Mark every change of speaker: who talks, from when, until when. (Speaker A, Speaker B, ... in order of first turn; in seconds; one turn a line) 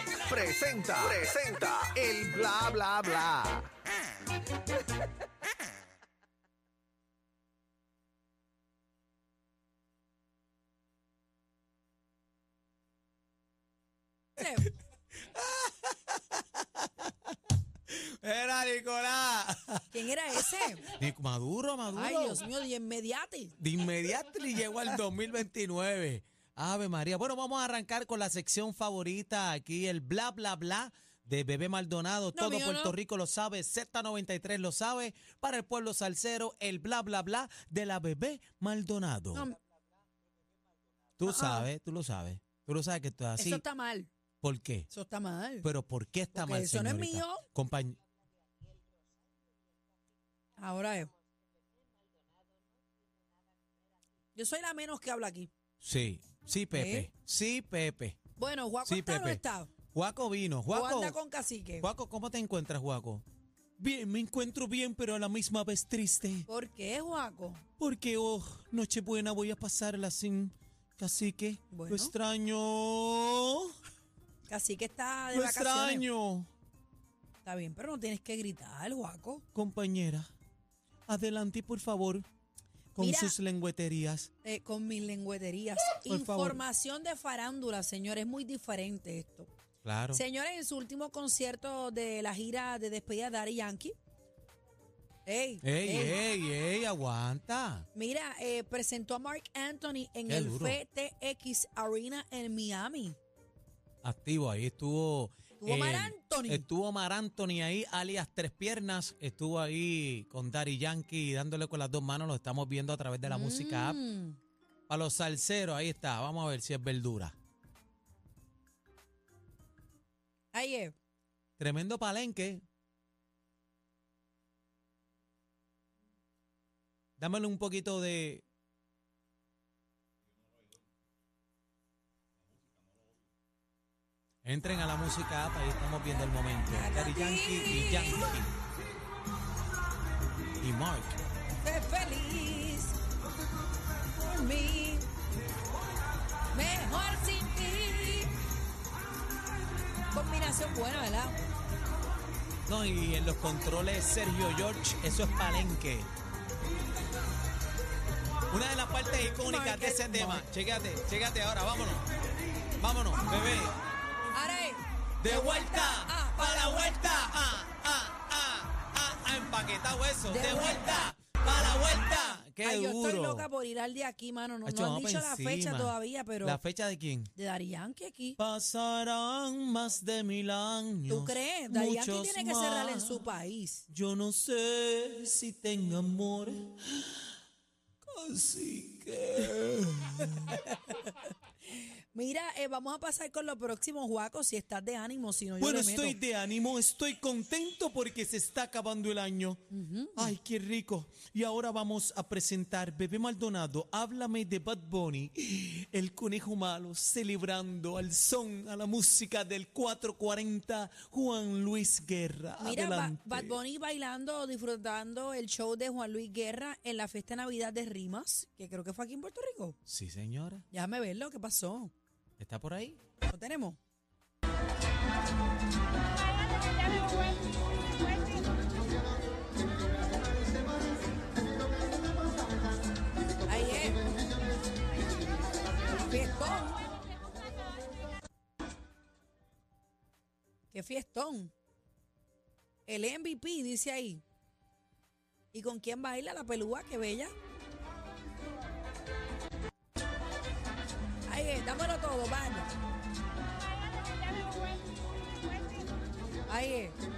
Speaker A: 0.2-3.7
Speaker B: 14.4-14.7
Speaker C: 15.2-17.1
Speaker C: 17.9-22.4
Speaker B: 19.9-20.8
Speaker B: 21.9-23.6
Speaker C: 23.6-39.5
Speaker B: 32.3-33.0
Speaker C: 41.2-43.6
Speaker B: 41.2-41.7
Speaker B: 43.4-44.1
Speaker C: 44.4-44.9
Speaker B: 44.9-45.7
Speaker C: 45.6-48.0
Speaker B: 46.3-47.4
Speaker B: 50.6-51.1
Speaker B: 54.3-55.5
Speaker C: 55.8-58.2
Speaker B: 56.7-57.1
Speaker B: 58.4-59.7
Speaker C: 58.8-59.4
Speaker C: 59.9-61.2
Speaker B: 60.7-61.9
Speaker C: 61.8-63.2
Speaker C: 63.8-66.5
Speaker B: 66.5-67.6
Speaker C: 67.8-73.7
Speaker B: 71.7-72.1
Speaker B: 74.5-76.0
Speaker C: 75.3-76.5
Speaker B: 77.4-79.4
Speaker C: 79.5-80.3
Speaker C: 81.1-82.2
Speaker C: 82.9-84.3
Speaker B: 83.0-83.3
Speaker B: 84.4-89.5
Speaker C: 86.0-86.6
Speaker C: 89.8-90.2
Speaker B: 90.1-93.9
Speaker B: 95.2-96.2
Speaker C: 95.6-97.9
Speaker B: 97.9-103.2
Speaker C: 100.3-100.8
Speaker C: 104.0-114.0
Speaker B: 105.6-106.7
Speaker B: 113.2-114.4
Speaker C: 114.9-117.3
Speaker B: 120.5-121.0
Speaker C: 121.6-122.6
Speaker C: 127.2-128.4
Speaker C: 134.4-138.6
Speaker B: 136.7-138.4
Speaker C: 140.6-141.2
Speaker B: 141.6-143.0
Speaker B: 144.1-145.1
Speaker B: 146.5-148.3
Speaker B: 150.1-151.4
Speaker C: 152.7-156.1
Speaker C: 158.5-162.1
Speaker B: 159.4-160.4
Speaker C: 162.8-163.8
Speaker B: 164.3-167.4
Speaker C: 165.2-173.5
Speaker B: 170.3-171.1
Speaker B: 172.6-176.6
Speaker C: 174.6-177.3
Speaker B: 177.3-178.4
Speaker C: 178.4-183.3
Speaker B: 181.1-183.8
Speaker C: 183.9-187.3
Speaker C: 188.0-190.6
Speaker B: 190.5-191.2
Speaker B: 191.8-196.2
Speaker C: 195.6-199.6
Speaker B: 199.7-200.3
Speaker C: 200.2-213.6
Speaker B: 212.6-219.8
Speaker C: 219.8-220.6
Speaker B: 220.7-221.9
Speaker C: 222.4-223.0
Speaker B: 223.3-223.8
Speaker B: 233.5-234.1
Speaker B: 236.0-236.9
Speaker B: 240.7-241.5
Speaker B: 242.9-244.2
Speaker B: 245.5-247.3
Speaker B: 251.2-252.7
Speaker B: 256.5-256.9